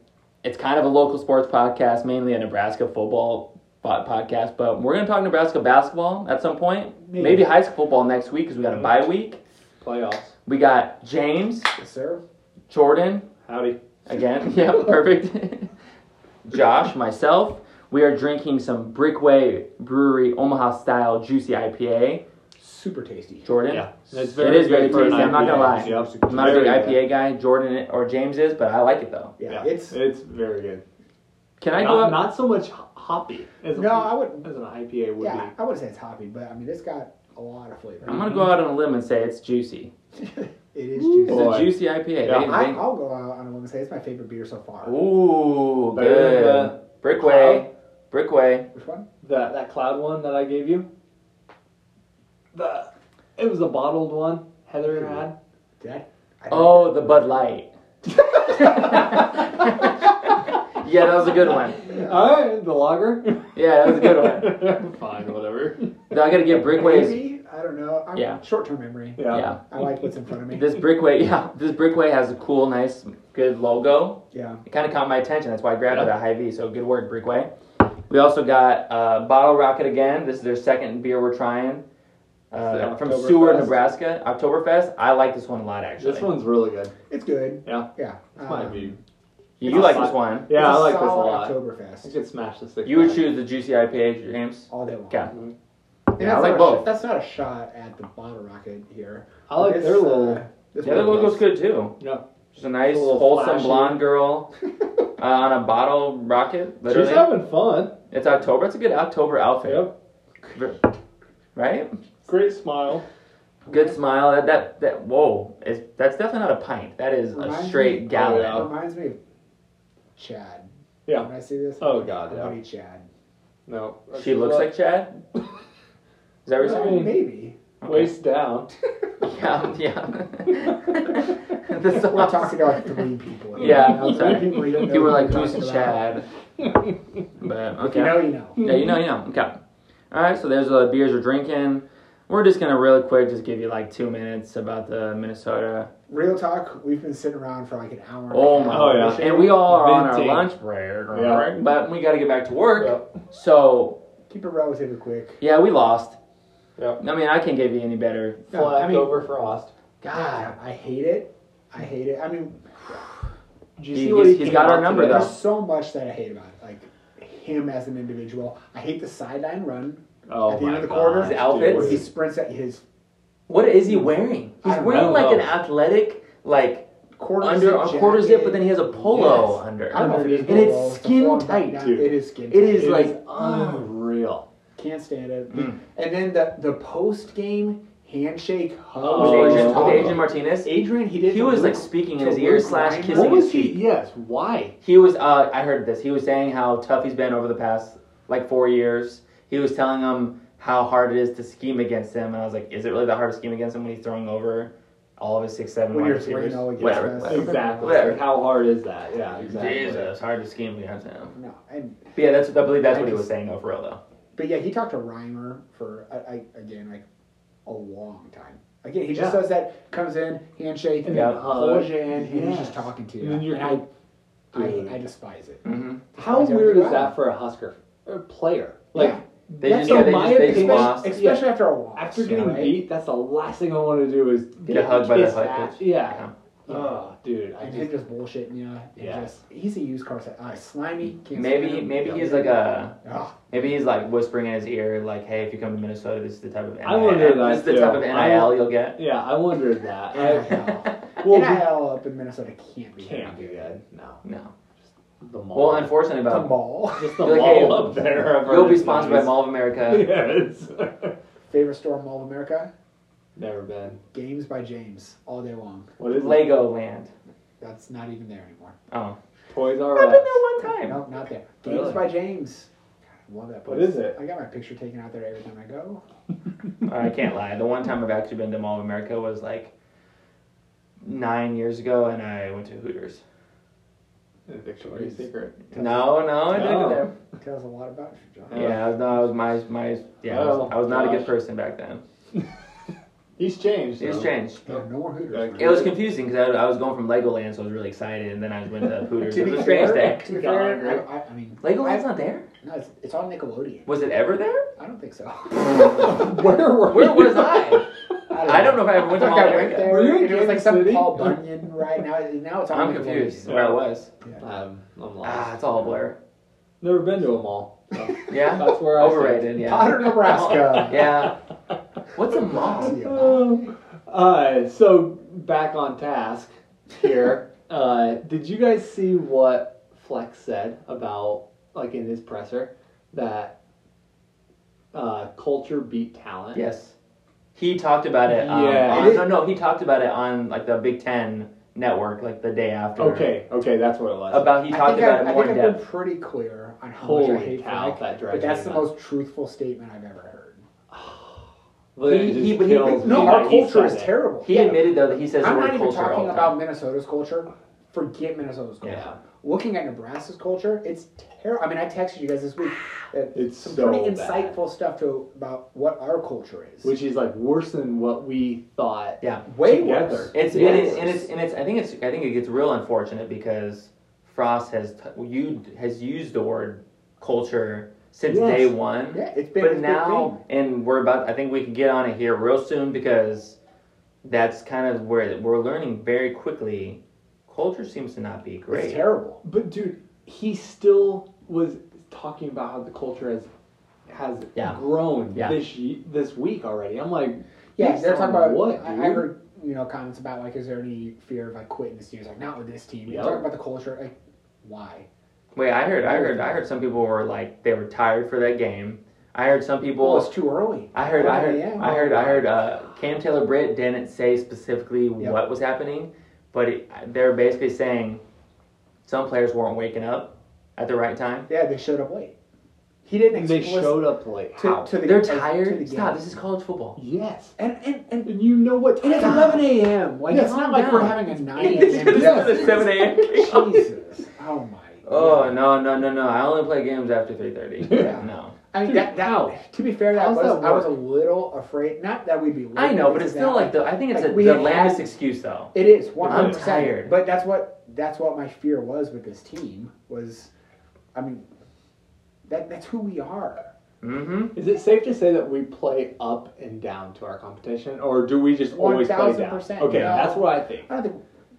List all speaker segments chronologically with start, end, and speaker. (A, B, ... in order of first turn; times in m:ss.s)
0:00.4-0:09.4 A
0:07.0-0:07.5 B
0:09.8-0:10.3 C
0:10.5-0:11.7 A
0:11.8-0:12.2 B
0:12.7-0:13.3 A
0:13.5-0:13.8 C
0:14.1-0:15.7 A
0:16.5-0:22.2 A
0:22.6-0:23.5 B
0:23.4-0:29.4 A
0:23.7-0:27.0 C
0:24.7-0:26.9 B
0:29.4-0:30.0 B
0:29.5-0:30.8 C
0:31.6-0:32.2 A
0:31.7-0:35.5 C
0:33.7-0:34.5 B
0:35.2-0:38.4 B
0:38.0-0:39.9 A
0:38.1-0:38.5 C
0:40.2-0:41.7 B
0:41.1-0:42.5 C
0:41.2-0:42.8 A
0:42.3-0:45.0 B
0:44.8-0:48.7 A
0:45.9-0:47.6 C
0:48.7-0:49.1 B
0:49.2-0:50.9 C
0:52.5-0:55.4 C
0:54.9-0:55.2 B
0:55.8-0:57.2 B
0:56.5-0:57.7 A
0:58.5-0:59.2 B
0:58.5-1:01.8 A
1:01.3-1:02.3 B
1:01.8-1:05.9 C
1:03.6-1:04.8 A
1:06.1-1:07.2 A
1:06.5-1:10.8 B
1:08.2-1:08.4 A
1:09.2-1:09.5 C
1:09.3-1:09.6 A
1:10.5-1:17.5 A
1:14.3-1:14.6 B
1:18.1-1:21.8 A
1:22.5-1:26.3 A
1:22.6-1:23.8 C
1:26.0-1:27.0 C
1:27.1-1:29.0 B
1:27.6-1:29.0 C
1:29.6-1:30.5 A
1:29.6-1:33.3 C
1:29.6-1:32.1 B
1:32.8-1:35.3 A
1:34.7-1:35.3 B
1:36.1-1:36.9 A
1:36.2-1:41.4 B
1:39.5-1:41.2 C
1:40.8-1:42.0 A
1:42.6-1:44.5 A
1:42.9-1:44.0 C
1:45.2-1:47.3 A
1:46.9-1:47.9 C
1:48.1-1:49.9 A
1:49.6-1:49.9 C
1:50.5-1:50.8 A
1:51.6-1:51.9 A
1:52.3-1:53.0 C
1:53.7-1:54.0 B
1:53.7-1:58.7 A
1:57.3-1:59.2 B
1:58.1-1:58.7 C
2:00.2-2:03.1 B
2:01.1-2:02.6 C
2:03.7-2:04.7 C
2:04.2-2:05.2 A
2:06.5-2:07.0 A
2:06.6-2:07.2 C
2:06.6-2:07.6 B
2:07.8-2:08.1 A
2:07.8-2:08.7 C
2:09.2-2:12.7 A
2:11.9-2:16.1 B
2:13.6-2:15.2 C
2:13.6-2:16.2 A
2:16.6-2:16.9 C
2:17.4-2:19.6 A
2:17.8-2:18.6 B
2:18.6-2:19.0 C
2:20.1-2:25.9 A
2:26.1-2:29.6 B
2:28.3-2:34.0 A
2:28.7-2:30.5 C
2:31.1-2:31.5 C
2:32.8-2:33.0 C
2:34.3-2:35.4 B
2:35.4-2:36.2 A
2:37.0-2:38.9 A
2:38.5-2:39.7 C
2:38.7-2:39.3 B
2:40.0-2:40.5 A
2:40.1-2:43.0 B
2:43.8-2:45.3 C
2:43.9-2:45.3 A
2:44.9-2:52.8 B
2:50.3-2:52.1 C
2:51.2-2:52.0 A
2:53.5-2:56.9 A
2:54.6-2:55.3 B
2:54.9-2:55.5 C
2:57.2-3:03.1 B
2:57.4-3:01.8 A
2:59.9-3:00.8 C
3:01.8-3:02.2 C
3:02.5-3:03.9 A
3:02.7-3:04.4 C
3:04.8-3:13.8 B
3:05.5-3:05.8 A
3:09.0-3:10.2 C
3:09.2-3:10.7 A
3:11.3-3:13.8 A
3:13.1-3:14.8 C
3:14.8-3:28.2 A
3:25.9-3:28.0 B
3:27.2-3:30.1 C
3:29.5-3:31.3 A
3:31.3-3:32.1 B
3:32.2-3:34.0 A
3:32.9-3:33.3 B
3:34.4-3:37.0 B
3:37.6-3:43.8 B
3:39.2-3:39.4 C
3:41.0-3:43.8 C
3:41.1-3:41.4 A
3:44.5-3:45.0 C
3:44.5-3:47.2 B
3:45.6-3:46.0 A
3:46.2-3:57.9 C
3:48.9-3:52.8 B
3:49.6-3:51.1 A
3:54.7-3:56.3 A
3:56.7-4:03.4 B
3:59.0-3:59.4 C
4:01.3-4:03.0 A
4:03.5-4:09.0 A
4:06.8-4:11.7 C
4:10.1-4:13.8 B
4:13.0-4:14.2 C
4:14.2-4:14.5 A
4:15.2-4:16.0 C
4:15.5-4:16.6 A
4:16.3-4:17.4 B
4:17.0-4:21.2 C
4:17.2-4:20.1 A
4:21.5-4:22.7 B
4:23.4-4:24.0 C
4:24.1-4:25.9 B
4:26.0-4:26.5 C
4:26.1-4:27.1 A
4:27.6-4:28.8 B
4:28.9-4:29.2 A
4:29.5-4:30.4 C
4:29.9-4:31.0 A
4:30.6-4:32.7 B
4:31.6-4:32.1 C
4:33.3-4:36.0 B
4:33.7-4:34.2 C
4:36.9-4:39.7 A
4:41.0-4:43.2 A
4:44.5-4:45.7 C
4:44.8-4:45.9 B
4:45.7-4:47.1 A
4:46.5-4:47.1 C
4:47.4-4:48.9 B
4:48.5-4:48.8 C
4:48.5-4:52.0 A
4:50.3-4:51.3 C
4:53.4-4:54.3 C
4:54.0-4:54.8 A
4:54.7-4:55.9 B
4:55.3-4:55.9 C
4:55.6-5:00.3 A
4:59.3-5:02.1 B
4:59.3-5:01.0 C
5:01.6-5:02.5 A
5:02.6-5:03.9 B
5:03.9-5:04.7 A
5:04.8-5:06.4 B
5:05.6-5:07.9 C
5:05.7-5:06.1 A
5:06.9-5:07.9 A
5:08.3-5:13.6 B
5:08.4-5:10.0 A
5:09.3-5:11.9 C
5:12.7-5:14.1 A
5:13.5-5:15.6 C
5:15.2-5:16.2 A
5:16.8-5:20.1 C
5:18.3-5:21.4 A
5:19.6-5:21.3 B
5:20.6-5:21.1 C
5:22.1-5:23.0 A
5:22.4-5:23.7 B
5:22.5-5:33.6 C
5:34.9-5:36.6 C
5:36.5-5:37.0 A
5:37.6-5:43.3 A
5:38.3-5:39.2 C
5:38.9-5:39.4 B
5:43.0-5:44.5 C
5:44.3-5:45.8 A
5:44.7-5:50.6 B
5:47.0-5:48.9 C
5:50.9-5:51.4 C
5:52.0-5:54.1 C
5:52.0-5:53.5 A
5:52.8-6:06.9 B
5:54.4-5:56.6 A
5:58.8-5:59.2 C
6:03.3-6:04.6 C
6:06.8-6:11.2 C
6:09.5-6:11.3 B
6:10.3-6:23.6 A
6:18.3-6:18.8 C
6:19.1-6:20.4 B
6:24.2-6:29.0 A
6:28.7-6:29.4 B
6:29.4-6:33.5 C
6:34.1-6:39.3 C
6:35.3-6:35.6 A
6:37.8-6:45.1 B
6:43.1-6:43.5 C
6:45.6-6:50.3 A
6:46.0-6:46.6 B
6:50.0-6:52.5 B
6:50.9-6:58.2 A
6:59.0-7:01.5 A
7:01.5-7:02.4 B
7:03.0-7:06.2 B
7:03.3-7:04.9 C
7:05.0-7:07.0 A
7:07.0-7:07.6 C
7:07.6-7:08.4 B
7:08.2-7:09.7 C
7:09.0-7:15.6 B
7:10.3-7:13.7 A
7:11.6-7:13.6 C
7:15.0-7:18.6 A
7:17.9-7:18.1 C
7:17.9-7:25.1 B
7:18.8-7:19.6 C
7:20.1-7:20.9 C
7:22.8-7:27.1 A
7:25.7-7:30.5 B
7:26.2-7:26.6 C
7:31.1-7:31.5 B
7:32.5-7:33.7 B
7:34.0-7:34.5 A
7:34.6-7:40.9 C
7:38.7-7:41.2 B